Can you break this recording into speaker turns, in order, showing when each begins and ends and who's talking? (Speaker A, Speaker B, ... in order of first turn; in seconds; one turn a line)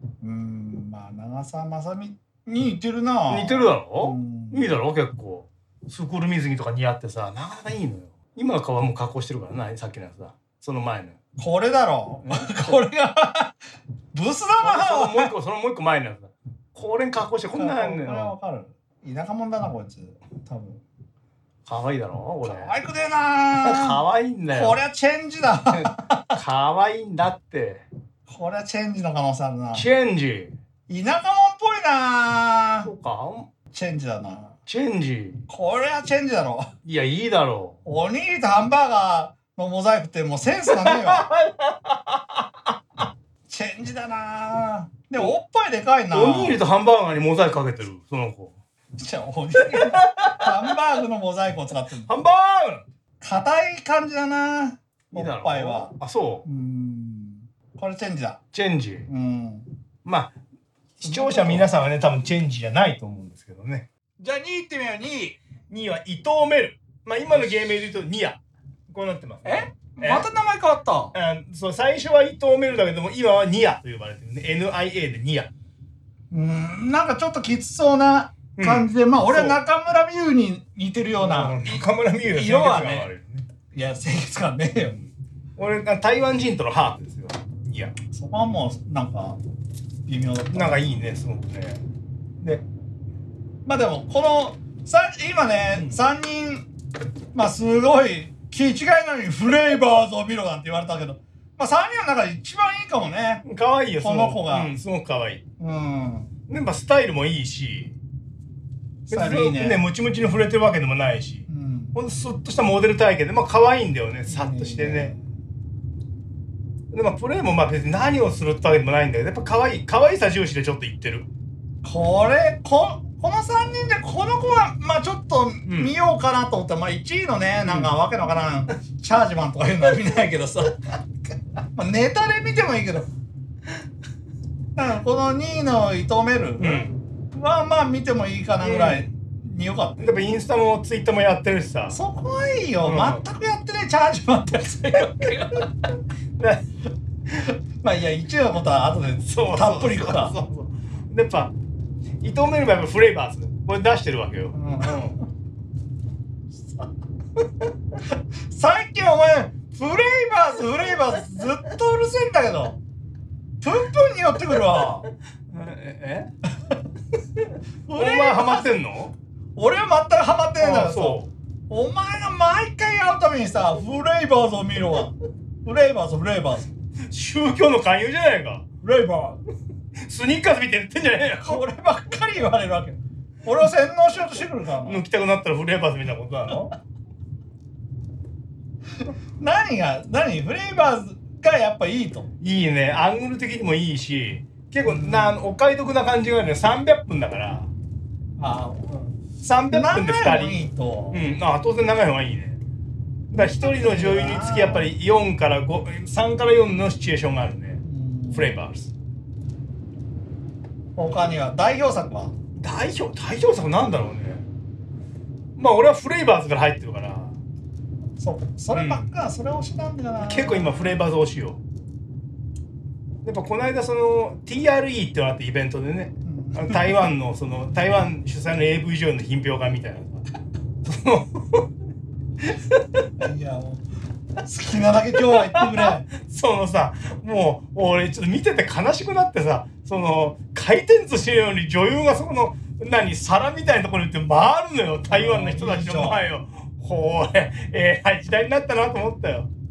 Speaker A: 0.2-4.7
Speaker B: 3.3-11.2
Speaker A: 11.4-13.5
Speaker B: 12.2-12.8
Speaker A: 14.1-15.3
Speaker B: 14.6-18.4
Speaker A: 17.5-20.8
Speaker B: 21.7-22.7
Speaker A: 22.4-24.0
Speaker B: 23.6-24.8
Speaker A: 24.5-26.4
Speaker B: 25.9-27.8
Speaker A: 28.3-29.9
Speaker B: 29.7-30.5
Speaker A: 30.9-32.9
Speaker B: 32.9-33.5
Speaker A: 33.7-34.6
Speaker B: 34.7-35.5
Speaker A: 35.5-36.7
Speaker B: 36.9-37.8
Speaker A: 37.9-41.3
Speaker B: 40.7-42.7
Speaker A: 43.5-46.6
Speaker B: 46.1-48.6
Speaker A: 49.0-52.1
Speaker B: 49.6-50.8
Speaker B: 52.1-52.9
Speaker A: 53.2-55.9
Speaker B: 55.1-56.5
Speaker A: 56.5-58.4
Speaker B: 58.5-59.1
Speaker A: 59.1-59.7
Speaker B: 60.0-60.3
Speaker B: 61.0-63.9
Speaker A: 61.0-61.7
Speaker A: 64.2-65.4
Speaker B: 65.7-68.4
Speaker B: 68.9-70.3
Speaker A: 69.5-71.1
Speaker B: 71.1-75.5
Speaker A: 76.3-83.1
Speaker B: 78.6-79.6
Speaker B: 81.2-83.5
Speaker A: 83.7-85.0
Speaker B: 85.6-88.0
Speaker A: 88.1-89.4
Speaker A: 90.1-91.0
Speaker B: 90.5-91.8
Speaker A: 93.7-96.7
Speaker A: 97.3-103.4
Speaker B: 103.5-105.4
Speaker A: 104.0-104.7
Speaker A: 105.6-106.3
Speaker B: 106.5-108.0
Speaker A: 109.1-109.9
Speaker B: 109.1-115.1
Speaker A: 111.5-112.0
Speaker A: 114.3-115.2
Speaker B: 116.9-121.3
Speaker A: 121.8-130.9
Speaker B: 125.7-125.9
Speaker B: 127.6-127.9
Speaker A: 131.8-133.1
Speaker A: 134.8-140.1
Speaker B: 136.6-136.9
Speaker B: 138.6-139.1
Speaker B: 140.0-142.0
Speaker A: 141.9-145.7
Speaker B: 142.8-143.2
Speaker B: 144.9-145.7
Speaker B: 146.4-146.6
Speaker A: 147.5-150.4
Speaker B: 149.2-151.5
Speaker B: 152.2-155.2
Speaker A: 154.5-155.3
Speaker A: 158.1-162.8
Speaker A: 163.6-165.1
Speaker B: 165.5-166.3
Speaker B: 167.4-169.1
Speaker A: 167.9-168.7
Speaker A: 169.6-176.7
Speaker B: 170.6-171.3
Speaker B: 177.1-178.7
Speaker A: 178.8-179.4
Speaker B: 180.0-181.6
Speaker A: 181.4-185.0
Speaker B: 184.8-186.7
Speaker A: 189.4-192.3
Speaker B: 192.4-197.7
Speaker A: 194.8-195.4
Speaker A: 198.4-199.1
Speaker B: 199.4-202.6
Speaker A: 199.7-201.3
Speaker B: 203.3-208.9
Speaker A: 203.3-204.9
Speaker A: 207.8-208.6
Speaker A: 211.0-212.3
Speaker B: 212.6-214.5
Speaker B: 215.6-217.4
Speaker A: 218.2-220.9
Speaker B: 218.7-219.1
Speaker B: 220.2-221.6
Speaker B: 223.2-230.2
Speaker A: 226.2-227.1
Speaker B: 230.8-231.7
Speaker B: 232.4-233.1
Speaker A: 233.2-233.8
Speaker A: 234.4-236.1
Speaker B: 235.2-249.5
Speaker A: 245.1-246.2